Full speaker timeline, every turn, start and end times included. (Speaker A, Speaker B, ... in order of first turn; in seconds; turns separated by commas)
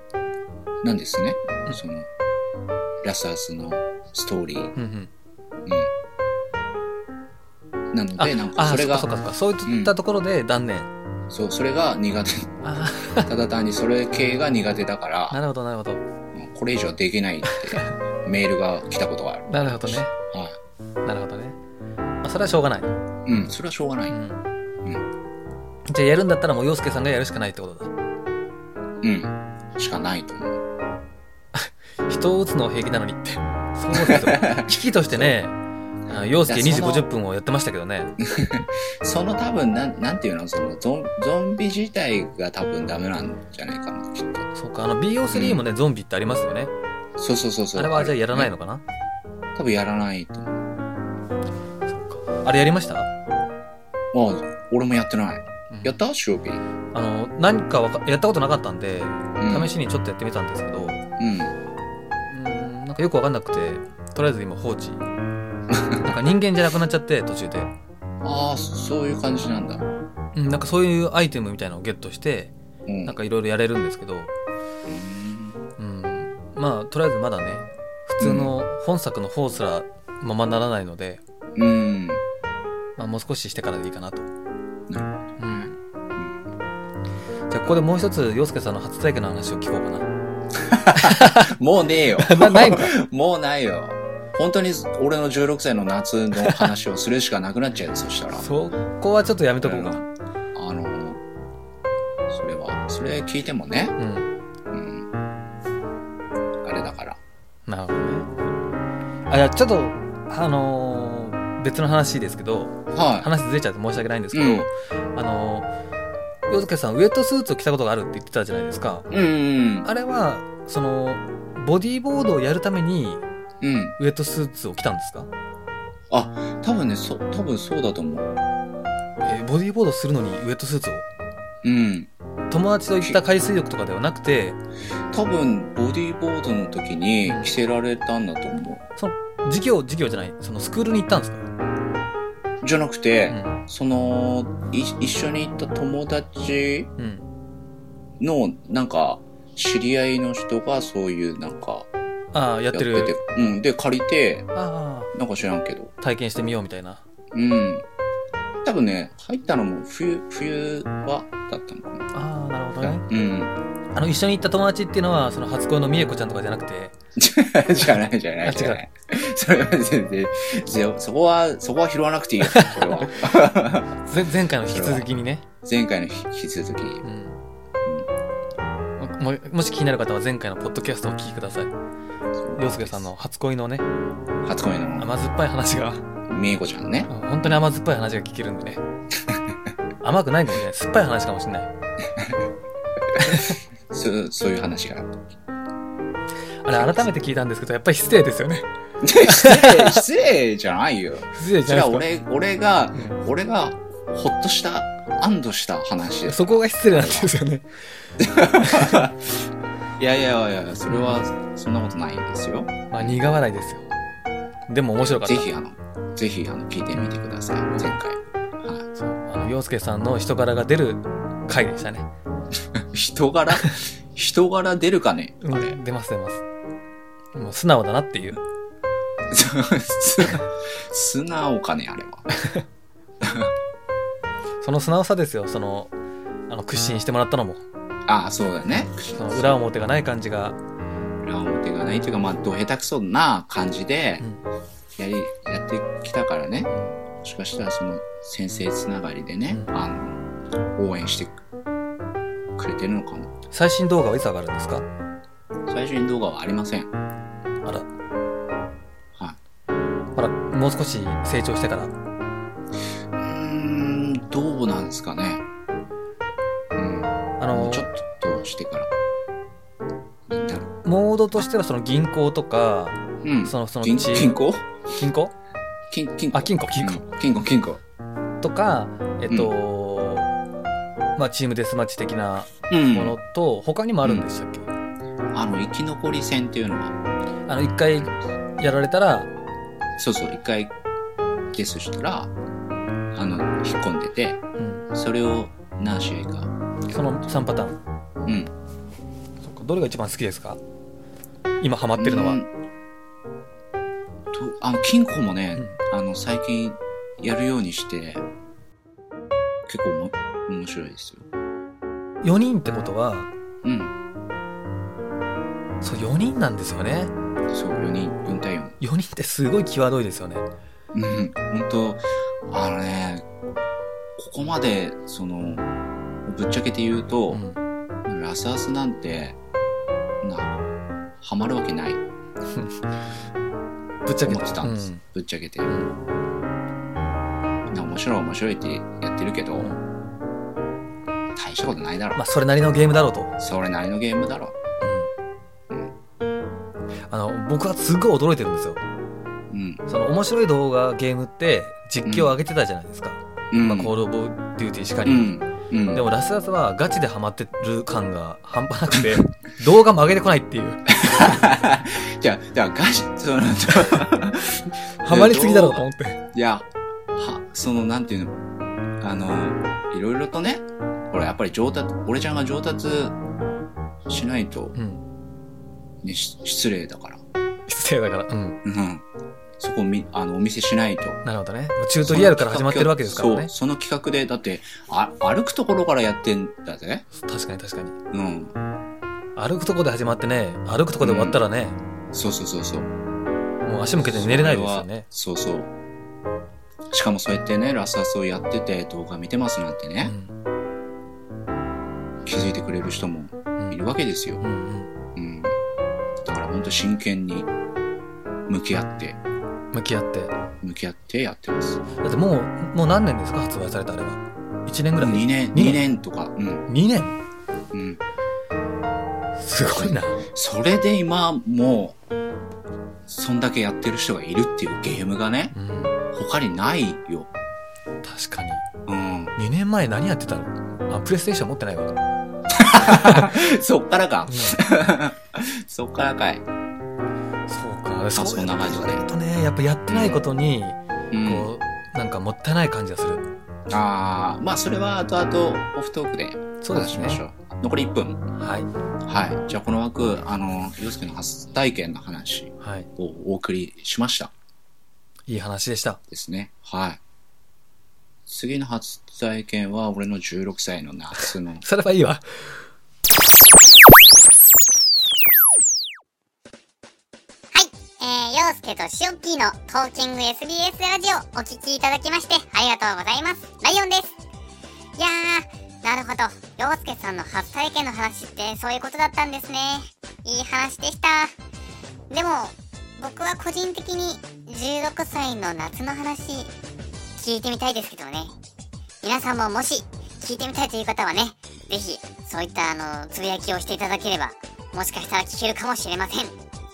Speaker A: 0.8-2.1, Speaker A: 3.0-4.7, Speaker B: 4.8-5.1, Speaker A: 7.9-9.1, Speaker B: 8.2-10.9, Speaker A: 9.7-9.9, Speaker A: 11.3-12.6, Speaker B: 12.6-13.3, Speaker A: 13.2-15.4, Speaker B: 15.3-16.0, Speaker A: 16.3-20.6, Speaker B: 19.5-20.1, Speaker B: 21.0-21.6, Speaker B: 22.2-23.0, Speaker A: 23.2-24.2, Speaker B: 24.1-24.4, Speaker B: 25.9-27.9, Speaker A: 29.0-30.6, Speaker B: 31.5-35.5, Speaker A: 33.9-35.3, Speaker B: 36.1-38.1, Speaker A: 36.5-37.0, Speaker A: 38.2-44.5, Speaker B: 44.5-46.7, Speaker A: 45.3-45.6, Speaker A: 47.2-48.5, Speaker B: 47.7-48.8, Speaker A: 49.5-50.6, Speaker B: 51.9-53.1, Speaker A: 54.1-56.6, Speaker B: 55.7-56.0, Speaker B: 56.9-61.0, Speaker A: 59.4-59.7, Speaker A: 61.2-61.5, Speaker B: 62.3-65.0, Speaker A: 65.7-66.1, Speaker B: 66.0-67.7, Speaker A: 68.2-69.8, Speaker B: 70.3-72.5, Speaker A: 72.9-73.2, Speaker B: 73.0-74.3, Speaker A: 74.9-75.6, Speaker B: 75.8-81.2, Speaker A: 78.2-78.5, Speaker A: 81.5-82.2, Speaker B: 83.0-84.3, Speaker A: 84.9-86.3, Speaker B: 85.4-85.8, Speaker B: 87.5-90.1, Speaker A: 90.6-98.5, Speaker B: 91.0-91.5, Speaker B: 92.2-92.9, Speaker B: 96.4-96.7, Speaker B: 98.4-100.0, Speaker A: 99.6-101.2, Speaker A: 102.3-104.0, Speaker B: 104.0-104.3, Speaker A: 104.7-105.1, Speaker A: 106.6-107.2, Speaker B: 107.7-108.3, Speaker B: 109.3-115.7, Speaker A: 112.9-113.3, Speaker A: 114.3-114.7, Speaker B: 116.5-119.1, Speaker A: 119.1-119.9, Speaker B: 119.8-123.2, Speaker A: 123.6-124.0, Speaker B: 124.0-125.3, Speaker A: 126.1-128.3, Speaker B: 129.2-131.1, Speaker A: 131.6-132.1, Speaker B: 132.5-134.6, Speaker A: 135.1-138.8, Speaker B: 137.2-137.5, Speaker B: 139.0-141.5, Speaker A: 142.6-146.9, Speaker B: 143.3-143.6, Speaker B: 147.0-147.2, Speaker A: 148.2-151.9, Speaker B: 152.3-153.2, Speaker A: 152.7-154.5, Speaker B: 154.5-155.1, Speaker A: 155.1-155.9, Speaker B: 156.0-157.0, Speaker A: 157.3-157.8, Speaker A: 158.6-162.1, Speaker B: 162.1-163.0, Speaker A: 162.8-163.5, Speaker B: 163.9-166.9, Speaker A: 167.2-173.9, Speaker B: 168.4-168.8, Speaker B: 172.4-173.3, Speaker B: 174.0-175.5, Speaker A: 174.7-175.1, Speaker A: 175.6-177.0, Speaker B: 177.0-177.3, Speaker B: 179.0-181.7, Speaker A: 182.4-183.1, Speaker B: 182.6-183.8, Speaker A: 184.4-185.1, Speaker B: 185.0-186.1, Speaker A: 186.3-187.6, Speaker B: 187.1-188.8, Speaker B: 190.0-191.7, Speaker A: 193.2-195.2, Speaker B: 193.2-193.5, Speaker B: 196.6-198.7, Speaker A: 196.7-197.1, Speaker A: 199.0-207.3, Speaker B: 199.2-200.1, Speaker B: 201.3-202.1, Speaker B: 206.3-208.1, Speaker A: 208.2-209.3, Speaker B: 208.6-209.1, Speaker A: 210.0-213.1, Speaker B: 210.9-211.2, Speaker B: 212.9-213.8, Speaker B: 214.7-215.5, Speaker A: 215.0-218.8, Speaker B: 218.9-222.1, Speaker A: 222.7-225.8, Speaker B: 225.4-226.4, Speaker B: 227.3-228.4, Speaker A: 229.3-232.3, Speaker A: 233.2-233.5, Speaker B: 234.6-235.9, Speaker B: 236.5-237.6, Speaker A: 238.1-239.6, Speaker B: 238.7-240.6, Speaker A: 241.2-244.2, Speaker A: 245.0-250.2, Speaker B: 246.7-247.0, Speaker A: 250.7-251.4, Speaker A: 252.6-253.3, Speaker B: 253.5-254.9, Speaker A: 255.7-256.9, Speaker B: 260.1-261.9, Speaker A: 263.1-265.4, Speaker A: 266.8-268.9, Speaker B: 267.4-267.9, Speaker A: 270.3-270.8, Speaker B: 270.8-274.4, Speaker A: 273.2-274.8, Speaker B: 275.0-275.3, Speaker A: 275.9-277.8, Speaker B: 276.3-277.1, Speaker B: 278.4-280.3, Speaker B: 281.1-284.7, Speaker A: 282.7-283.1, Speaker A: 285.3-286.9, Speaker B: 287.5-289.3, Speaker A: 290.0-290.7, Speaker A: 291.5-292.3, Speaker A: 293.1-296.5, Speaker B: 294.6-294.9, Speaker B: 296.9-297.8, Speaker A: 298.2-298.5, Speaker B: 299.4-300.6, Speaker B: 301.6-302.4, Speaker A: 301.9-302.5, Speaker A: 304.3-308.2, Speaker A: 309.7-311.2, Speaker B: 312.2-313.3, Speaker A: 313.6-313.9, Speaker B: 315.8-317.1, Speaker A: 317.5-318.8, Speaker B: 318.8-320.5, Speaker A: 320.9-323.2, Speaker A: 324.2-325.7, Speaker A: 326.2-327.4, Speaker B: 327.3-327.6, Speaker A: 328.0-329.4, Speaker A: 330.2-330.6, Speaker A: 331.2-332.0, Speaker B: 332.5-333.1, Speaker B: 334.1-335.0, Speaker A: 334.2-335.8, Speaker A: 337.7-339.7, Speaker A: 341.3-342.2, Speaker B: 342.1-343.3, Speaker A: 343.4-344.6, Speaker B: 344.8-345.1, Speaker B: 347.1-348.8, Speaker A: 349.5-349.8, Speaker B: 349.9-355.3, Speaker A: 352.0-352.3, Speaker A: 353.5-353.9, Speaker A: 355.0-356.1, Speaker B: 355.9-361.5, Speaker A: 360.9-368.4, Speaker B: 365.0-366.2, Speaker A: 369.0-373.2, Speaker A: 374.1-374.8, Speaker B: 374.7-375.0, Speaker A: 376.0-377.2, Speaker B: 377.7-378.6, Speaker A: 378.6-379.0, Speaker A: 379.6-381.2, Speaker B: 381.2-383.5, Speaker A: 382.0-387.1, Speaker B: 387.1-387.9, Speaker A: 388.1-388.5, Speaker B: 389.4-391.8, Speaker A: 391.0-391.4, Speaker A: 392.1-392.9, Speaker B: 393.6-395.1, Speaker A: 394.0-395.7, Speaker A: 396.9-400.1, Speaker B: 400.0-400.3, Speaker A: 402.2-404.4, Speaker B: 404.4-404.9, Speaker A: 405.1-405.6, Speaker A: 406.2-407.5, Speaker A: 408.5-409.2, Speaker B: 409.7-410.3, Speaker A: 410.6-411.8, Speaker B: 412.0-415.8, Speaker A: 415.0-416.7, Speaker B: 416.7-417.2, Speaker A: 417.7-418.0, Speaker B: 419.4-420.2, Speaker A: 419.7-422.0, Speaker A: 423.1-425.5, Speaker B: 425.5-426.0, Speaker A: 426.1-427.3, Speaker B: 428.0-428.6, Speaker A: 428.9-429.3, Speaker B: 429.4-431.9, Speaker A: 432.5-436.4, Speaker B: 432.8-433.3, Speaker B: 434.3-434.6, Speaker B: 437.5-443.2, Speaker A: 438.1-439.0, Speaker A: 439.9-440.2, Speaker A: 441.1-441.5, Speaker A: 443.7-448.2, Speaker B: 446.6-447.2, Speaker B: 448.4-448.7, Speaker A: 449.1-454.3, Speaker B: 452.6-452.9, Speaker B: 455.3-456.0, Speaker A: 456.1-457.0, Speaker A: 458.3-461.6, Speaker B: 461.6-462.6, Speaker C: 467.5-474.1, Speaker C: 475.0-481.3, Speaker C: 482.1-486.5, Speaker C: 487.2-488.3, Speaker C: 489.0-496.3